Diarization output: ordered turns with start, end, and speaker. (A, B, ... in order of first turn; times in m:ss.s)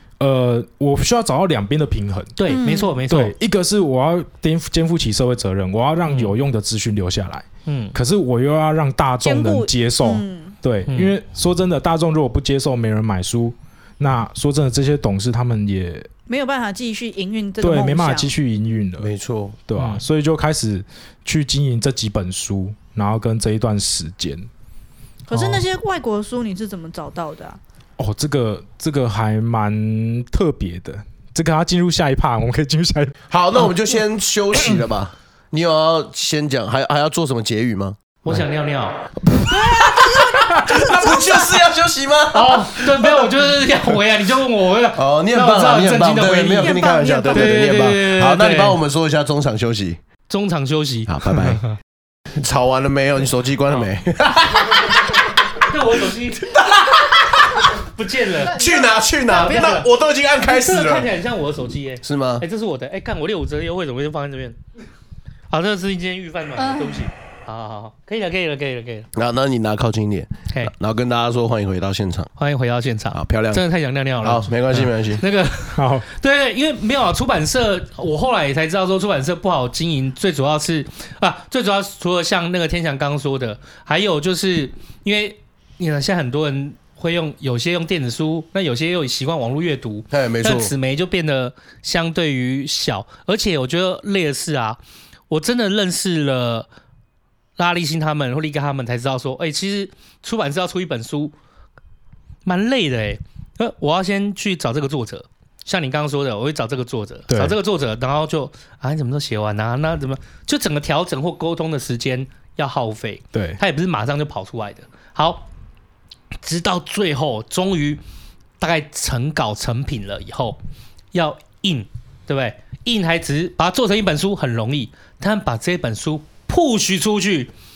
0:00.2-0:02.4 A
0:02.4-0:03.4 B
0:02.5-0:03.0 C
0:03.1-0:16.1 A
0:06.1-0:06.3 B
0:07.7-0:08.0 B
0:09.2-0:10.6 C
0:10.9-0:11.1 B
0:16.3-0:18.3 C
0:17.6-0:19.1 A
0:19.0-0:19.6 D
0:19.7-0:24.5 A
0:19.8-0:20.0 B
0:25.3-0:27.6 C
0:25.3-0:25.6 A
0:28.0-0:33.2 A
0:33.3-0:38.0 D
0:38.2-0:39.0 B
0:39.4-0:43.5 D
0:39.5-0:41.3 C
0:40.4-0:40.8 A
0:42.3-0:48.8 B
0:45.0-0:50.0 D
0:46.6-0:47.8 C
0:50.3-0:51.7 B
0:51.1-0:51.6 D
0:52.4-0:55.6 D
0:55.6-0:56.6 B
0:56.4-0:57.7 D
0:57.8-0:58.6 B
0:58.5-0:59.8 C
0:58.5-1:01.1 D
0:59.3-0:59.9 B
1:00.4-1:04.6 B
1:02.0-1:02.4 D
1:05.5-1:09.1 B
1:06.6-1:07.1 C
1:09.2-1:12.3 D
1:12.4-1:36.7 B
1:13.1-1:13.6 D
1:14.2-1:15.2 D
1:15.8-1:16.1 A
1:30.1-1:30.7 D
1:37.6-1:41.4 B
1:42.4-1:55.5 B
1:47.3-1:47.6 A
1:53.3-1:53.6 A
1:56.4-1:58.0 B
1:58.6-2:00.6 B
2:01.1-2:07.5 B